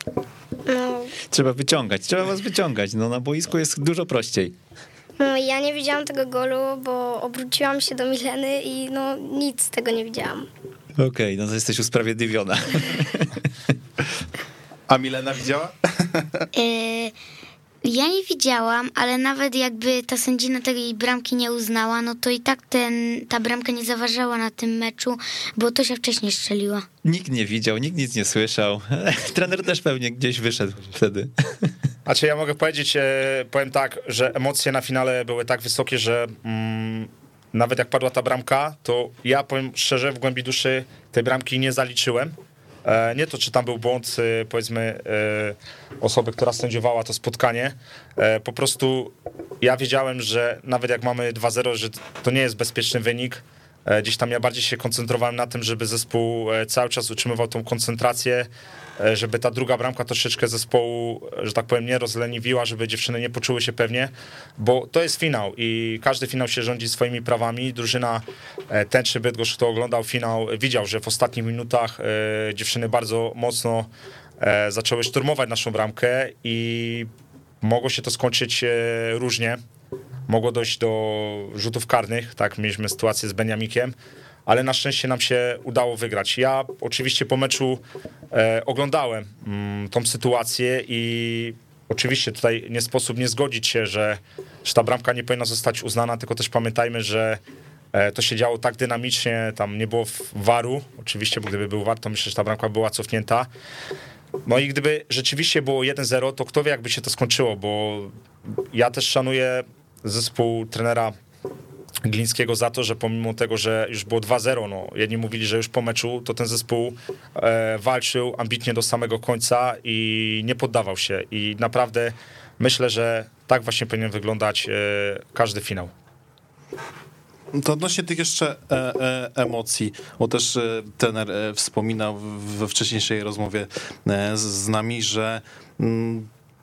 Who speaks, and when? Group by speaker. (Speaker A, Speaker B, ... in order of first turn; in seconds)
Speaker A: 0.7-1.2, 5.2-10.5
Speaker B: 1.3-4.6, 11.0-13.5, 27.0-31.7
Speaker C: 14.9-16.5, 127.5-136.3
Speaker D: 16.5-17.1, 17.8-26.9
Speaker E: 32.1-58.5, 59.0-77.1, 77.6-79.6, 80.3-84.0, 84.5-97.4, 97.9-103.5, 104.5-108.1, 108.7-111.2, 112.0-125.9